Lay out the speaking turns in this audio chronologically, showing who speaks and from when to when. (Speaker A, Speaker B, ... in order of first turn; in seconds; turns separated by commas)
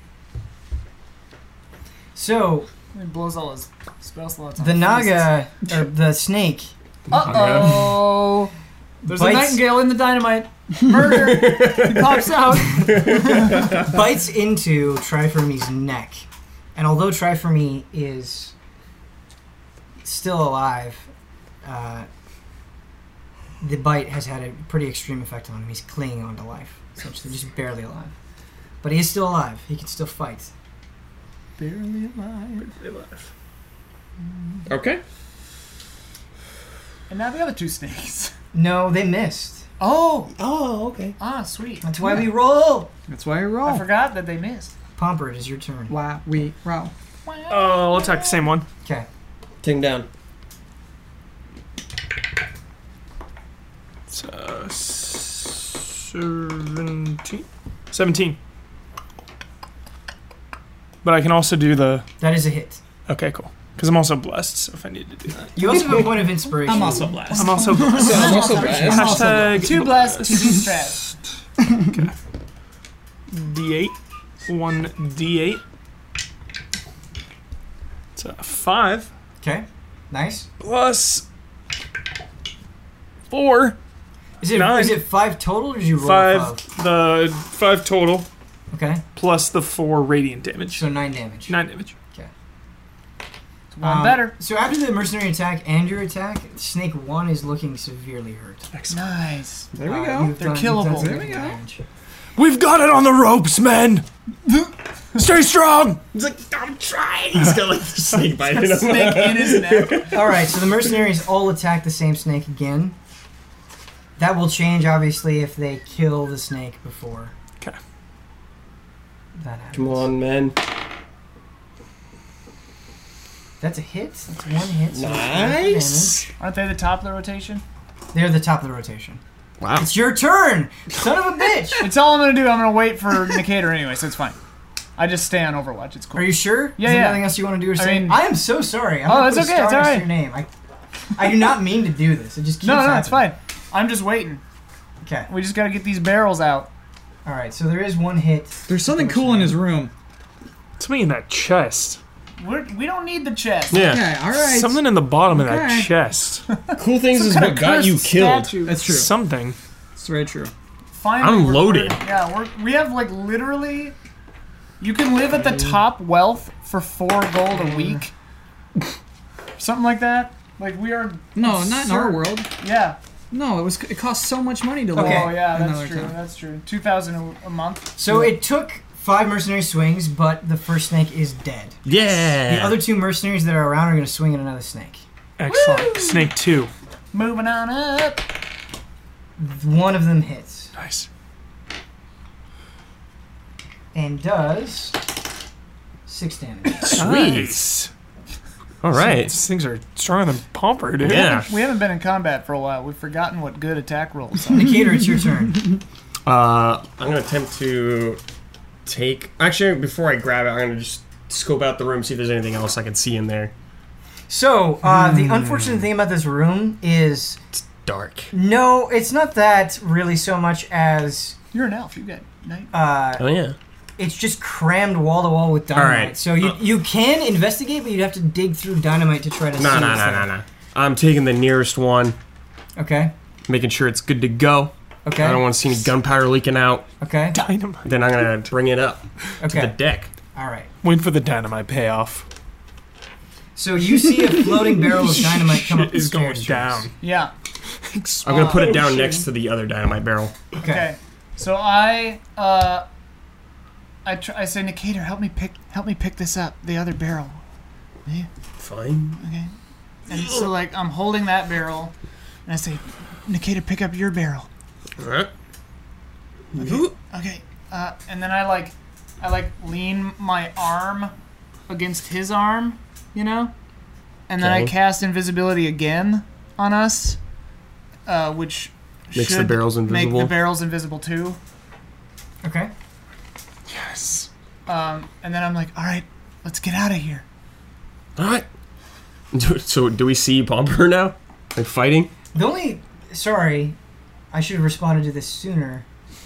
Speaker A: 2.1-2.7, Speaker B: 2.9-5.3, Speaker A: 4.6-6.7, Speaker C: 7.1-8.0, Speaker B: 7.1-8.5, Speaker A: 9.0-9.7, Speaker B: 9.1-13.8, Speaker C: 11.0-13.8, Speaker A: 13.0-18.5, Speaker A: 20.0-21.1, Speaker A: 21.6-22.1, Speaker A: 23.6-28.1, Speaker A: 28.8-30.5, Speaker B: 31.6-32.7, Speaker D: 32.6-33.3, Speaker B: 34.2-34.6, Speaker C: 34.6-35.0, Speaker B: 37.1-38.3, Speaker A: 38.5-39.6, Speaker B: 39.8-40.3, Speaker C: 40.4-41.1, Speaker B: 41.2-42.1, Speaker A: 41.8-42.9, Speaker E: 43.1-43.9, Speaker B: 43.6-44.7, Speaker A: 45.0-45.9, Speaker E: 45.9-46.9, Speaker B: 47.2-48.5, Speaker D: 47.5-48.6, Speaker C: 49.6-50.1, Speaker D: 54.1-58.4, Speaker D: 61.0-62.0, Speaker A: 62.2-62.8, Speaker D: 63.1-65.8, Speaker A: 65.5-67.2, Speaker E: 66.6-69.6, Speaker B: 67.3-71.1, Speaker D: 67.3-70.7, Speaker C: 67.9-69.3, Speaker D: 71.7-72.1, Speaker D: 73.3-75.6, Speaker D: 78.1-79.1, Speaker A: 79.4-80.5, Speaker D: 80.6-81.2, Speaker D: 83.3-83.8, Speaker A: 84.4-86.6, Speaker D: 84.5-85.0, Speaker D: 86.0-88.3, Speaker A: 88.7-89.0, Speaker D: 89.2-90.8, Speaker A: 90.7-92.3, Speaker D: 91.5-91.9, Speaker B: 93.7-94.3, Speaker A: 93.8-98.7, Speaker D: 98.7-99.1, Speaker B: 98.9-99.7, Speaker E: 99.7-101.6, Speaker A: 99.8-101.8, Speaker B: 100.3-101.3, Speaker D: 102.3-104.0, Speaker D: 105.1-106.0, Speaker C: 106.1-110.2, Speaker B: 108.5-110.1, Speaker A: 110.1-113.0, Speaker A: 114.2-117.3, Speaker A: 119.3-120.1, Speaker C: 119.7-120.6, Speaker A: 123.6-126.3, Speaker C: 124.9-126.3, Speaker B: 126.4-127.6, Speaker A: 128.1-129.2, Speaker C: 129.6-129.9, Speaker A: 129.8-131.9, Speaker B: 131.8-134.3, Speaker B: 135.0-138.2, Speaker A: 136.1-140.5, Speaker B: 139.1-140.1, Speaker A: 141.1-143.3, Speaker B: 142.6-144.4, Speaker A: 145.0-145.3, Speaker B: 145.3-146.7, Speaker A: 147.2-149.6, Speaker E: 148.7-149.9, Speaker D: 150.8-152.0, Speaker B: 152.4-154.0, Speaker C: 153.7-154.1, Speaker E: 153.8-155.9, Speaker D: 154.3-156.4, Speaker B: 156.5-158.8, Speaker C: 156.7-158.7, Speaker E: 158.6-159.1, Speaker D: 158.7-159.6, Speaker E: 159.9-160.5, Speaker B: 160.9-163.9, Speaker C: 161.2-162.0, Speaker B: 164.8-168.1, Speaker B: 169.6-173.0, Speaker E: 171.3-172.5, Speaker E: 173.3-176.2, Speaker A: 174.9-175.4, Speaker B: 174.9-177.9, Speaker A: 177.9-185.0, Speaker C: 181.8-182.8, Speaker D: 185.4-186.7, Speaker B: 185.5-186.3, Speaker B: 187.1-188.2, Speaker A: 189.4-190.7, Speaker D: 190.8-191.1, Speaker A: 193.9-195.0, Speaker A: 196.1-197.0, Speaker C: 196.8-197.7, Speaker D: 196.8-197.9, Speaker C: 198.8-199.3, Speaker D: 198.9-201.4, Speaker C: 201.0-201.5, Speaker B: 201.3-204.7, Speaker A: 204.5-205.8, Speaker C: 206.2-208.2, Speaker C: 208.8-213.5, Speaker A: 214.3-217.4, Speaker C: 215.1-215.5, Speaker C: 217.5-218.3, Speaker A: 218.3-221.3, Speaker B: 221.5-222.7, Speaker A: 222.7-223.2, Speaker C: 223.2-223.6, Speaker A: 224.0-230.3, Speaker C: 225.7-226.5, Speaker C: 229.6-232.2, Speaker A: 232.8-233.1, Speaker C: 233.5-236.9, Speaker A: 235.0-235.4, Speaker A: 237.0-237.4, Speaker D: 237.3-237.9, Speaker C: 237.8-240.1, Speaker A: 239.4-239.7, Speaker A: 240.3-240.7, Speaker D: 240.8-242.2, Speaker A: 243.5-246.8, Speaker D: 245.2-246.9, Speaker B: 247.0-247.3, Speaker D: 247.8-249.2, Speaker B: 248.2-248.9, Speaker C: 248.2-250.3, Speaker B: 250.6-252.8, Speaker A: 250.6-250.9, Speaker B: 254.0-257.4, Speaker C: 258.6-259.2, Speaker B: 259.2-259.5, Speaker B: 260.1-261.9, Speaker C: 260.1-260.5, Speaker B: 262.4-264.5, Speaker C: 265.0-265.3, Speaker C: 266.5-266.9, Speaker B: 266.6-271.1, Speaker B: 271.7-273.5, Speaker B: 274.3-277.2, Speaker C: 274.4-274.7, Speaker B: 278.1-281.4, Speaker C: 279.1-280.4, Speaker A: 282.4-282.7, Speaker D: 283.7-284.3, Speaker B: 284.7-287.2, Speaker C: 288.1-288.4, Speaker C: 289.3-292.1, Speaker A: 292.3-293.8, Speaker A: 294.3-295.8